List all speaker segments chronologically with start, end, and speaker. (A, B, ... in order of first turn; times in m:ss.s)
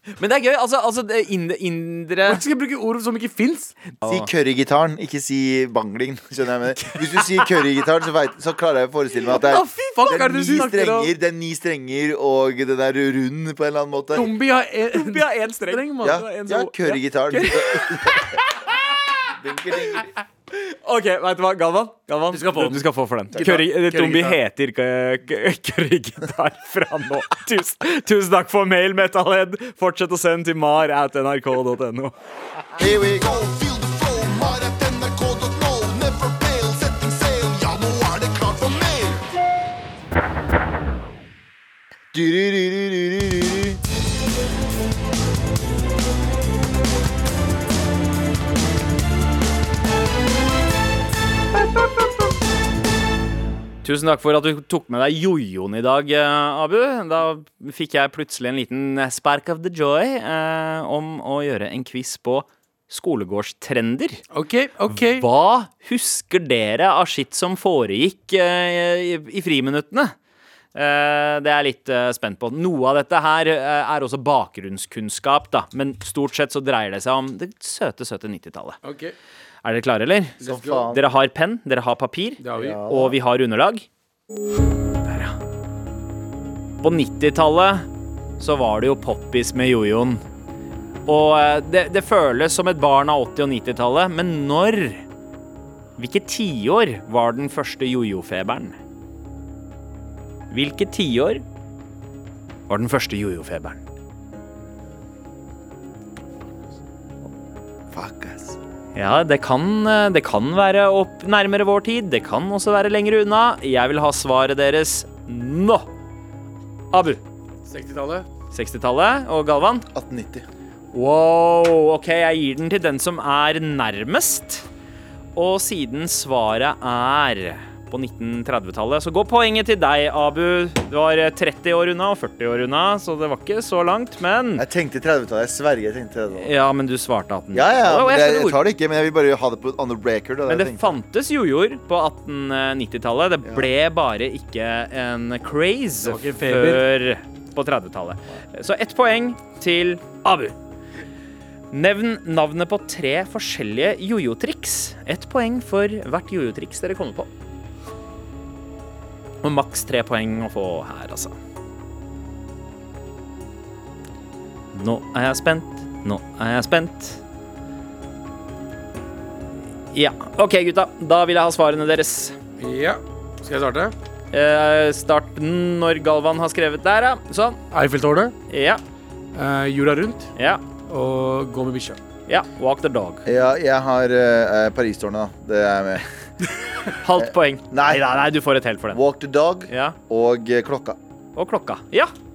0:00.2-0:02.4 A
0:02.2-0:03.7 B
0:04.0-0:04.3 A
0:04.0-0:14.3 C
0:06.8-0:07.5 A
0:09.3-0:11.1 B
0:14.1-0:16.3 B
0:14.9-0:18.7 A
0:16.0-0:18.4 C
0:19.3-0:20.1 C
0:20.5-0:32.1 A
0:22.3-0:24.4 B
0:32.8-0:33.4 C
0:32.8-0:39.2 D
0:42.1-0:43.8 C
0:53.8-1:04.2 A
1:04.3-1:05.2 B
1:04.9-1:10.1 A
1:10.7-1:18.8 A
1:18.8-1:19.1 B
1:19.6-1:23.8 A
1:20.4-1:20.8 B
1:20.4-1:21.0 C
1:22.4-1:22.8 B
1:22.5-1:23.2 C
1:25.0-1:25.3 A
1:26.8-1:27.8 A
1:28.4-1:30.2 A
1:31.0-1:35.0 A
1:36.0-1:38.8 A
1:40.5-1:41.4 A
1:42.7-1:43.8 A
1:47.9-1:48.6 C
1:48.9-1:55.9 A
1:56.9-1:57.2 A
1:57.6-1:58.3 B
1:58.5-1:59.8 A
1:59.9-2:00.4 C
2:00.9-2:04.6 A
2:05.3-2:14.6 A
2:14.5-2:16.5 C
2:16.4-2:18.6 A
2:17.5-2:20.9 C
2:20.5-2:30.5 A
2:26.0-2:26.8 B
2:31.7-2:37.3 A
2:39.4-2:41.3 A
2:44.7-2:47.2 A
2:49.9-2:52.4 A
2:52.6-2:53.9 B
2:54.3-2:57.6 A
2:57.7-2:58.3 B
2:58.5-2:58.8 A
2:59.3-3:00.3 B
3:00.4-3:00.6 A
3:00.8-3:02.0 B
3:02.3-3:03.2 A
3:03.2-3:06.0 C
3:06.8-3:09.0 A
3:07.2-3:08.0 C
3:08.9-3:11.0 C
3:09.7-3:10.0 A
3:11.4-3:12.1 A